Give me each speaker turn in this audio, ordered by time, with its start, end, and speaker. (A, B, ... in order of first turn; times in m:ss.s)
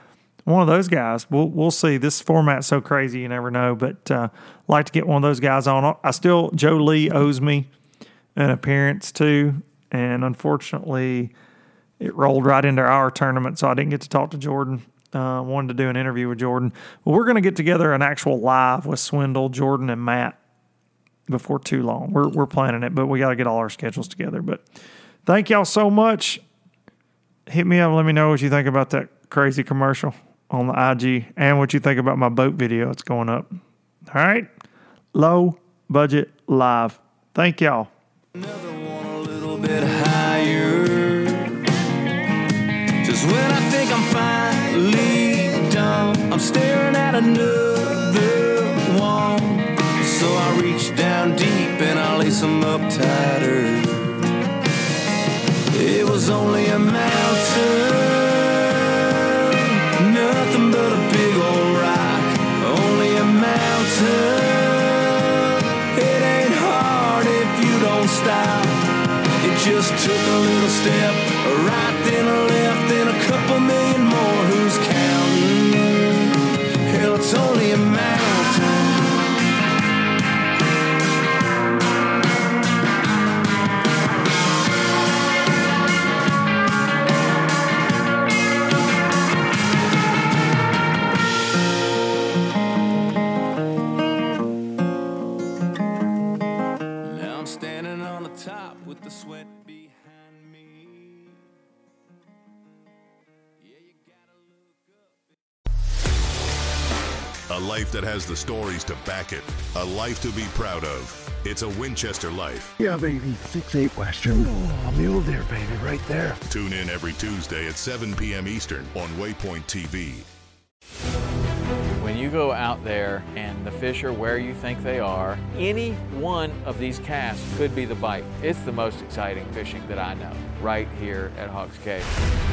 0:00.5-0:07.7 A
0:08.4-0:11.3 A
0:12.0-0:20.4 A
0:21.3-0:24.6 A
0:25.3-0:26.4 A
0:27.5-0:33.5 A
0:34.1-0:34.5 A
0:35.1-0:37.9 A
0:38.4-0:41.6 B
0:43.0-0:54.3 B
0:55.7-1:08.9 B
1:09.4-1:18.9 B
1:37.0-1:41.4 B
1:43.6-1:45.2 B
1:47.5-1:52.8 C
1:52.8-1:56.4 D
1:56.5-2:00.3 C
2:02.0-2:12.1 E